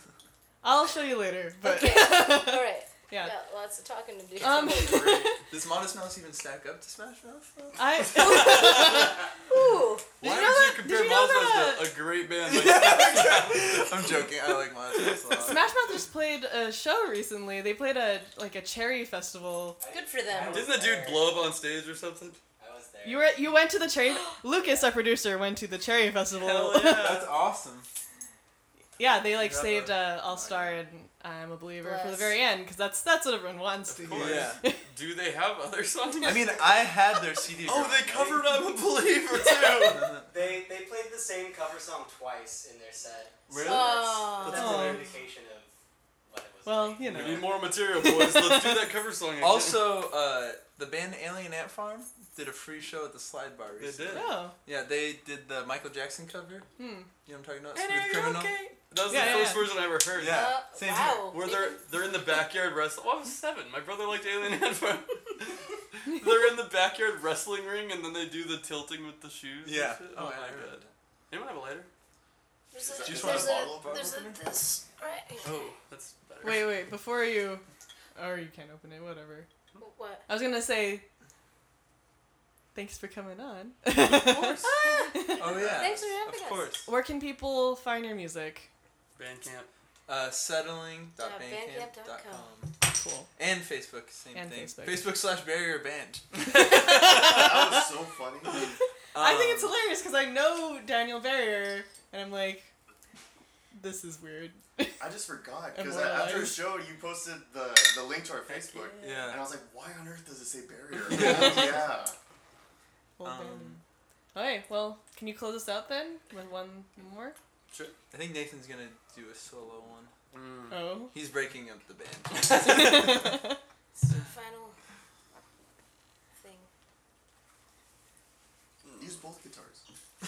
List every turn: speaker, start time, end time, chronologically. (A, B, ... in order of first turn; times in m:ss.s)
0:00.6-0:03.3 A
0:01.6-0:05.1 B
0:04.4-0:05.3 C
0:04.4-0:05.4 A
0:05.5-0:08.2 D
0:07.8-0:09.3 A
0:08.2-0:10.2 B
0:10.2-0:14.2 C
0:10.2-0:12.0 A
0:12.4-0:15.7 D
0:15.4-0:19.8 A
0:19.8-0:21.5 E
0:19.9-0:20.8 B
0:20.4-0:22.4 C
0:22.6-0:23.5 E
0:23.0-0:27.2 A
0:24.1-0:24.4 B
0:26.3-0:27.3 C
0:26.8-0:27.9 D
0:29.0-0:34.8 A
0:29.2-0:30.1 C
0:31.8-0:32.4 B
0:33.9-0:36.7 C
0:34.1-0:34.6 D
0:36.2-0:38.3 D
0:37.6-0:40.1 C
0:38.1-0:38.5 E
0:39.7-0:40.0 B
0:40.0-0:40.2 D
0:40.2-0:45.7 E
0:43.5-0:44.4 D
0:43.5-0:44.8 B
0:44.4-0:45.0 C
0:44.5-0:45.1 A
0:46.2-0:47.7 E
0:46.6-0:48.9 A
0:47.0-0:50.0 C
0:49.4-0:56.7 D
0:53.8-0:54.4 C
0:54.1-0:54.6 A
0:56.8-0:57.1 A
0:57.2-1:01.3 D
0:57.8-1:00.5 C
0:58.1-0:59.8 A
1:00.2-1:01.8 B
1:01.3-1:11.9 C
1:09.6-1:10.9 D
1:12.7-1:15.6 B
1:12.8-1:14.4 F
1:13.0-1:14.4 D
1:15.4-1:16.8 C
1:16.4-1:17.6 A
1:18.1-1:19.5 A
1:19.8-1:20.2 B
1:20.3-1:21.0 A
1:22.7-1:25.5 A
1:24.2-1:26.7 B
1:25.4-1:26.9 D
1:25.6-1:26.0 F
1:26.8-1:28.7 A
1:29.2-1:29.7 C
1:30.1-1:32.7 D
1:31.2-1:32.5 B
1:32.9-1:33.3 A
1:33.4-1:36.3 D
1:34.3-1:35.1 A
1:36.4-1:37.8 A
1:37.0-1:38.7 F
1:39.1-1:39.8 D
1:39.2-1:42.7 A
1:43.7-1:45.0 A
1:45.0-1:52.1 F
1:45.7-1:46.7 A
1:48.6-1:49.3 B
1:49.0-1:49.4 D
1:51.1-1:51.8 D
1:53.2-1:53.8 A
1:53.2-1:53.8 D
1:54.3-1:57.4 A
1:58.1-2:00.1 D
2:00.3-2:00.8 C
2:00.7-2:01.1 A
2:01.1-2:03.2 D
2:02.6-2:03.6 A
2:04.0-2:04.8 B
2:06.4-2:06.7 B
2:08.8-2:09.1 C
2:08.9-2:09.8 F